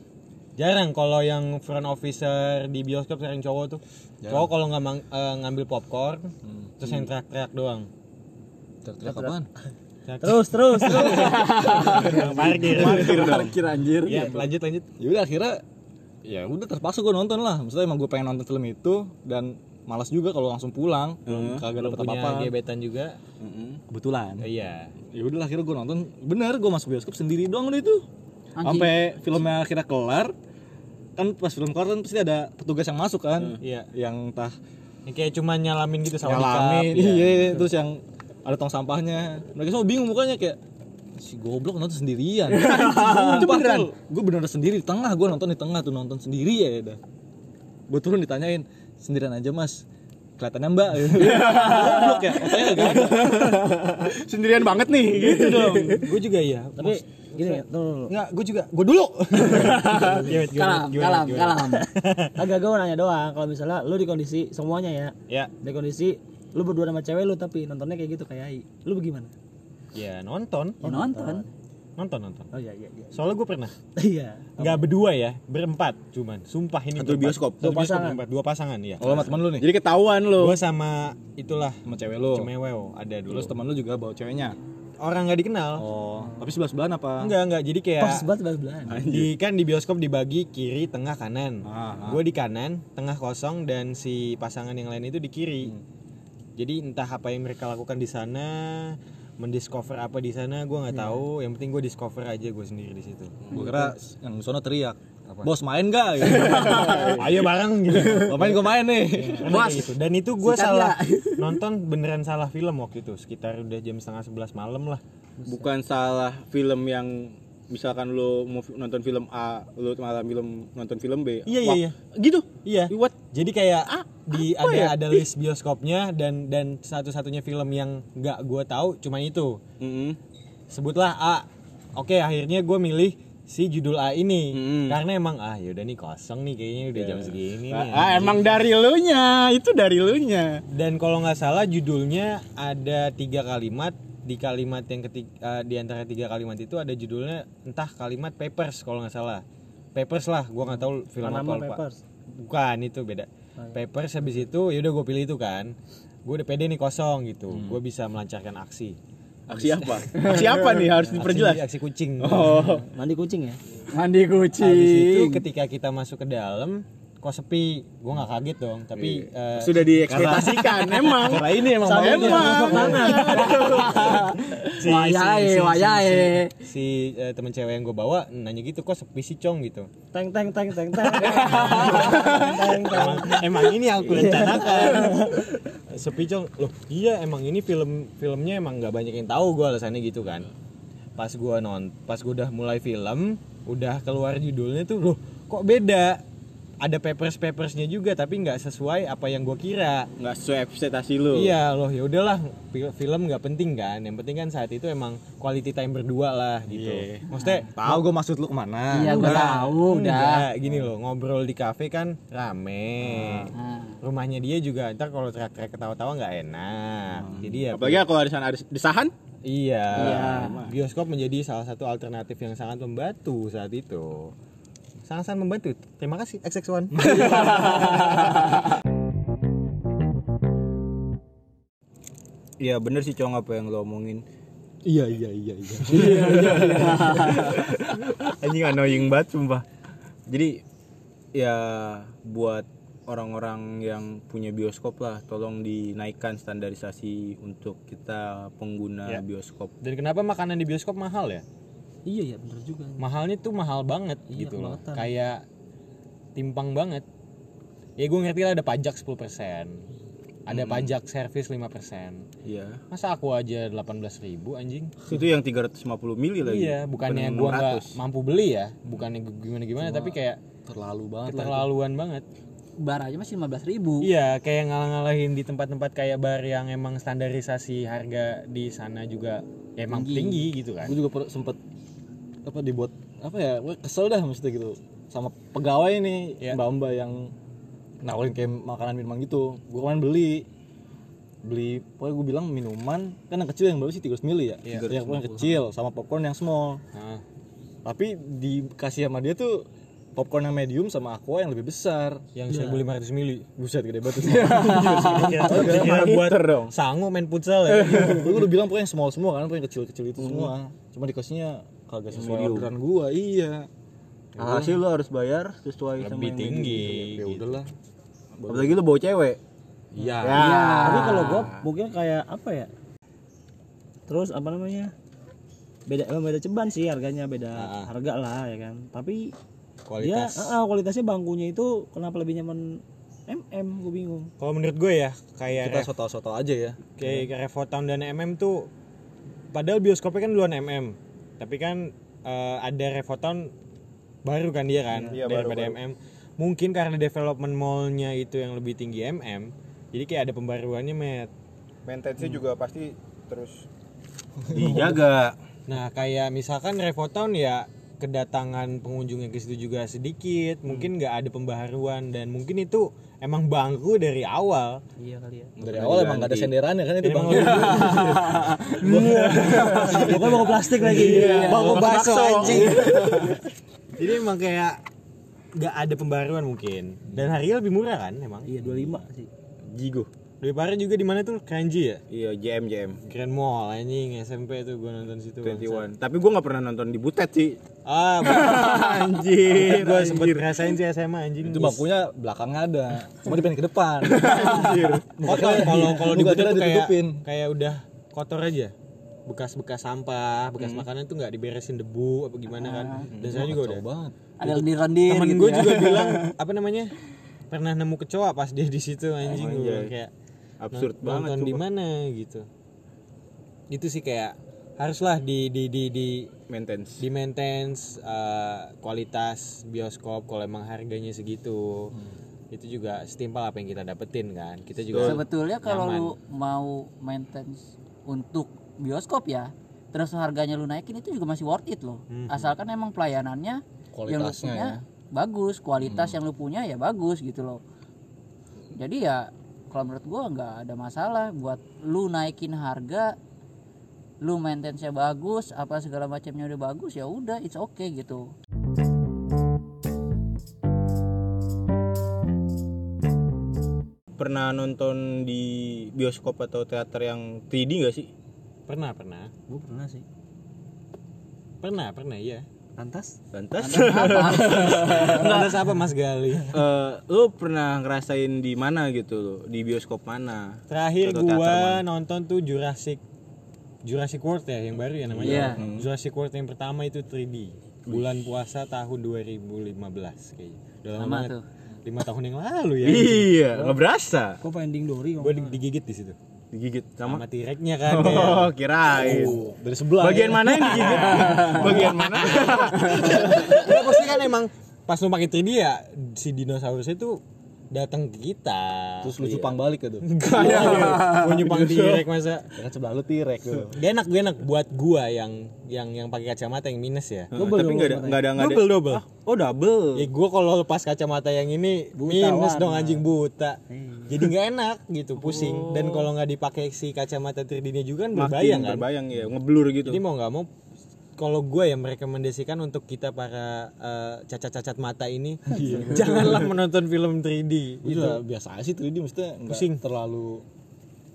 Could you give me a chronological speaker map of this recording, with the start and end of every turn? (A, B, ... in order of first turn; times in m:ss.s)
0:00.6-0:07.9 A
0:04.2-0:04.5 B
0:06.4-0:07.0 B
0:08.8-0:09.5 B
0:09.1-0:09.3 C
0:10.1-0:13.5 A
0:10.2-0:12.1 C
0:11.2-0:14.4 D
0:11.3-0:13.6 B
0:14.0-0:14.9 A
0:15.0-0:15.6 B
0:16.2-0:22.5 B
0:21.3-0:21.7 D
0:21.8-0:23.2 A
0:23.4-0:23.8 D
0:23.9-0:24.5 B
0:24.4-0:24.9 A
0:25.1-0:28.0 B
0:28.6-0:29.0 E
0:28.6-0:30.4 B
0:31.2-0:34.6 B
0:33.6-0:33.9 A
0:35.1-0:37.6 A
0:36.2-0:40.6 B
0:41.2-0:47.0 B
0:42.5-0:43.9 D
0:42.8-0:43.2 E
0:47.9-0:49.8 B
0:50.4-0:53.6 B
0:51.2-0:56.1 D
0:51.8-0:52.1 E
0:55.2-1:02.4 A
0:56.8-0:58.1 C
0:59.5-1:01.9 E
1:02.4-1:09.3 C
1:09.9-1:10.8 A
1:10.8-1:11.5 E
1:10.8-1:11.5 C
1:12.0-1:12.5 A
1:12.5-1:13.2 C
1:13.1-1:13.7 A
1:14.0-1:14.8 C
1:14.6-1:19.4 A
1:17.0-1:17.7 D
1:17.6-1:18.2 C
1:19.0-1:19.7 B
1:19.4-1:20.6 D
1:20.4-1:23.5 A
1:21.8-1:22.5 B
1:23.3-1:24.6 B
1:25.0-1:25.8 A
1:25.8-1:27.3 B
1:27.2-1:28.3 A
1:28.0-1:29.0 C
1:28.9-1:29.3 D
1:28.9-1:35.8 A
1:31.6-1:32.2 B
1:36.6-1:43.5 A
1:43.5-1:47.3 B
1:46.4-1:47.3 D
1:47.2-1:48.8 A
1:48.0-1:49.6 B
1:49.3-1:55.0 A
1:49.4-1:49.9 E
1:50.4-1:51.6 E
1:55.5-2:03.2 D
2:01.5-2:02.0 A
2:02.6-2:09.6 A
2:03.9-2:05.2 D
2:09.8-2:10.2 D
2:10.7-2:18.6 A
2:14.5-2:15.0 D
2:17.0-2:20.6 D
2:20.7-2:29.4 A
2:30.0-2:31.8 A
2:31.2-2:32.0 C
2:32.3-2:39.0 A
2:39.5-2:41.6 D
2:39.6-2:42.8 A
2:42.2-2:42.9 D
2:42.7-2:43.6 C
2:43.9-2:45.4 E
2:44.6-2:59.9 A
2:49.0-2:54.2 D
2:51.8-2:54.0 C
2:53.2-2:56.5 E
3:00.1-3:05.4 C
3:01.1-3:10.5 A
3:11.2-3:16.2 A
3:16.8-3:20.1 A
3:20.2-3:21.6 D
3:21.3-3:28.1 A
3:26.7-3:29.7 B
3:27.4-3:27.7 E
3:28.9-3:30.5 E
3:29.1-3:38.1 A
3:33.0-3:33.5 B
3:33.5-3:34.0 E
3:37.2-3:37.5 B
3:37.7-3:39.1 D
3:39.4-3:44.3 A
3:39.9-3:40.7 D
3:40.0-3:40.6 E
3:45.0-3:47.8 A
3:46.9-3:48.0 B
3:47.1-3:48.2 D
3:52.6-3:54.2 D
3:54.8-3:57.7 B
3:55.8-3:59.6 D
4:00.3-4:00.6 D
4:01.3-4:09.7 D
4:09.8-4:11.4 A
4:12.1-4:13.0 C
4:13.0-4:15.4 A
4:14.3-4:15.1 C
4:16.4-4:17.0 A
4:18.0-4:19.9 A
4:20.5-4:22.3 A
4:20.5-4:20.9 D
4:22.4-4:22.8 D
4:22.9-4:25.1 A
4:25.0-4:28.0 D
4:26.4-4:30.4 A
4:29.8-4:31.7 B
4:31.2-4:32.2 A
4:32.8-4:34.1 E
4:34.0-4:41.0 A
4:39.9-4:40.4 E
4:40.8-4:41.6 B
4:42.4-4:47.3 B
4:48.0-4:50.5 B
4:51.4-4:56.8 B
4:54.7-4:55.6 D
4:56.9-4:57.2 A
4:57.8-5:02.8 B
5:02.4-5:03.6 A
5:03.6-5:06.1 B
5:04.2-5:08.3 A
5:04.5-5:06.7 D
5:07.7-5:08.4 D
5:07.8-5:13.7 B
5:10.2-5:10.5 D
5:12.1-5:12.7 D
5:14.4-5:17.1 D
5:14.4-5:14.8 B
5:16.0-5:17.6 A
5:17.1-5:17.7 B
5:18.4-5:18.8 B
5:18.5-5:19.4 D
5:19.9-5:20.4 B
5:20.2-5:21.7 D
5:20.3-5:21.5 E
5:20.8-5:22.7 C
5:24.1-5:24.9 C
5:25.9-5:29.3 C
5:27.6-5:27.9 A
5:29.9-5:30.6 A
5:30.0-5:34.3 C
5:34.4-5:35.9 A
5:35.6-5:37.1 B
5:37.0-5:38.7 A
5:39.5-5:43.5 A
5:44.2-5:51.3 A
5:45.0-5:45.8 D
5:51.9-5:53.7 D
5:54.4-5:55.0 B
5:54.5-5:55.4 D
5:55.7-6:04.8 A
6:05.0-6:05.6 C
6:05.6-6:06.5 D
6:05.6-6:10.2 B
6:07.0-6:13.4 A
6:08.8-6:11.8 C
6:09.2-6:10.0 D
6:10.9-6:13.4 D
6:11.2-6:11.8 E
6:14.0-6:14.8 A
6:15.6-6:18.5 A
6:18.5-6:19.3 C
6:19.7-6:20.1 D
6:20.4-6:22.0 A
6:22.1-6:23.0 D
6:23.0-6:25.9 A
6:25.4-6:27.6 D
6:27.8-6:31.9 A
6:28.2-6:30.6 D
6:31.4-6:37.2 B
6:34.1-6:35.8 D
6:35.2-6:38.8 A
6:39.3-6:43.8 A
6:40.6-6:40.8 D
6:42.6-6:43.1 E
6:43.2-6:44.6 B
6:44.4-6:46.3 E
6:45.0-6:46.9 A
6:47.5-6:50.1 A
6:49.2-6:49.9 D
6:50.6-6:51.6 D
6:50.7-6:52.5 A
6:53.7-6:56.3 A
6:56.5-6:57.0 D
6:57.0-7:01.9 A
7:02.5-7:06.1 A
7:04.9-7:05.2 D
7:05.0-7:17.6 E
7:12.1-7:12.5 A
7:13.9-7:14.8 B
7:15.9-7:16.2 B
7:18.8-7:23.2 E
7:24.2-7:28.3 E
7:34.2-7:38.1 D
7:38.7-7:39.3 A
7:39.5-7:40.0 C
7:41.6-7:42.5 A
7:42.8-7:43.2 C
7:43.3-7:45.6 D
7:43.6-7:45.1 E
7:44.8-7:46.6 A
7:46.5-7:51.8 D
7:50.7-7:53.0 A
7:53.8-8:01.3 A
7:55.2-7:55.6 E
7:55.2-7:55.9 D
7:57.9-7:58.1 D
8:01.0-8:01.4 E
8:01.8-8:03.3 A
8:02.8-8:04.4 D
8:03.5-8:03.8 C
8:04.4-8:05.6 C
8:05.2-8:06.2 A
8:06.5-8:07.2 D
8:07.0-8:08.5 A
8:07.9-8:09.4 D
8:08.9-8:12.3 B
8:10.0-8:13.7 D
8:10.9-8:17.2 A
8:17.7-8:19.5 A
8:19.0-8:21.1 B
8:20.0-8:22.5 A
8:20.2-8:22.1 D
8:22.6-8:23.8 B
8:23.7-8:27.3 A
8:27.3-8:30.1 D
8:27.3-8:28.3 C
8:28.3-8:29.0 A
8:30.0-8:38.9 A
8:32.0-8:33.0 C
8:33.7-8:34.2 C
8:35.2-8:36.1 D
8:38.2-8:40.0 D
8:39.8-8:40.5 A
8:41.2-8:48.2 A
8:45.5-8:46.4 B
8:46.0-8:46.4 D
8:47.8-8:50.4 B
8:49.5-8:49.8 A